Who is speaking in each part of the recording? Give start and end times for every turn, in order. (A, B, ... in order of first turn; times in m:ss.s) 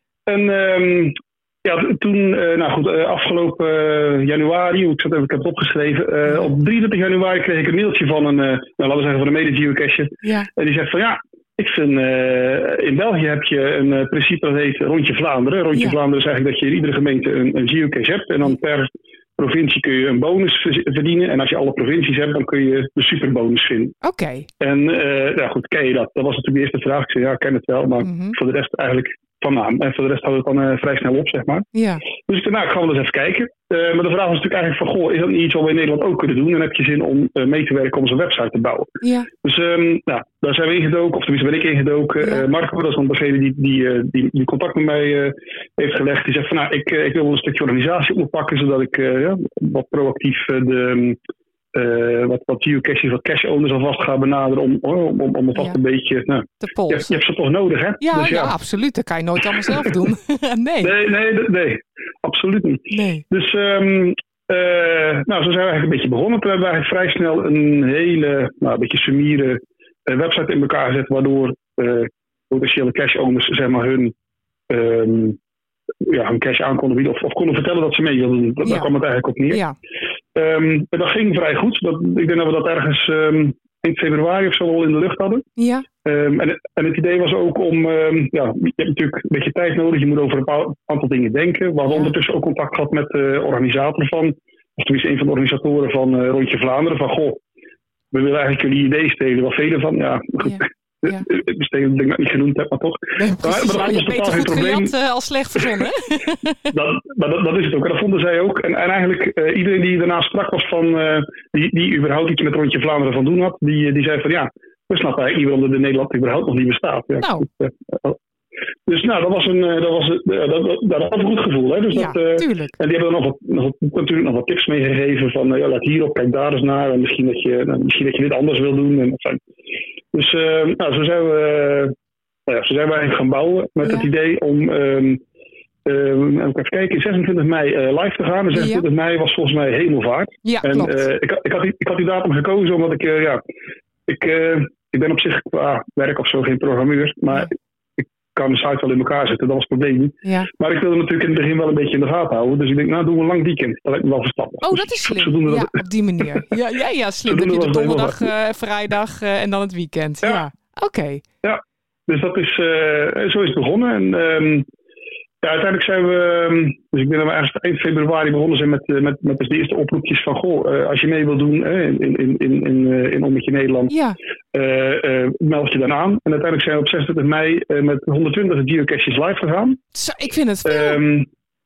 0:00.3-0:23.9 A
0:06.3-0:06.5 B
0:10.2-0:10.5 B
0:24.0-0:24.5 B
0:24.6-0:31.7 A
0:28.0-0:28.4 B
0:31.7-0:32.0 B
0:32.3-0:51.2 A
0:39.0-0:39.3 B
0:42.2-0:42.5 B
0:51.7-0:58.5 A
0:56.6-0:57.2 B
0:58.0-1:00.9 B
1:00.8-1:14.1 A
1:02.9-1:03.2 B
1:14.7-1:15.4 A
1:16.0-1:19.6 A
1:18.6-1:18.9 B
1:19.5-1:19.8 B
1:20.4-1:25.5 A
1:25.6-1:25.9 B
1:26.0-1:37.4 A
1:31.9-1:32.1 B
1:38.1-1:44.9 A
1:40.4-1:41.2 B
1:43.2-1:46.6 B
1:46.7-1:58.2 A
1:57.2-1:57.5 B
1:58.9-2:09.4 A
2:01.9-2:02.8 B
2:10.1-2:11.9 A
2:12.5-2:15.2 A
2:13.8-2:14.1 B
2:15.9-2:23.4 A
2:18.5-2:18.8 B
2:20.4-2:21.0 B
2:24.1-2:35.8 A
2:30.2-2:30.5 B
2:34.6-2:41.2 B
2:37.3-2:38.3 A
2:41.4-2:44.6 A
2:45.4-2:53.9 A
2:53.9-2:54.2 B
2:54.5-2:59.8 A
3:00.0-3:01.0 B
3:00.6-3:01.3 A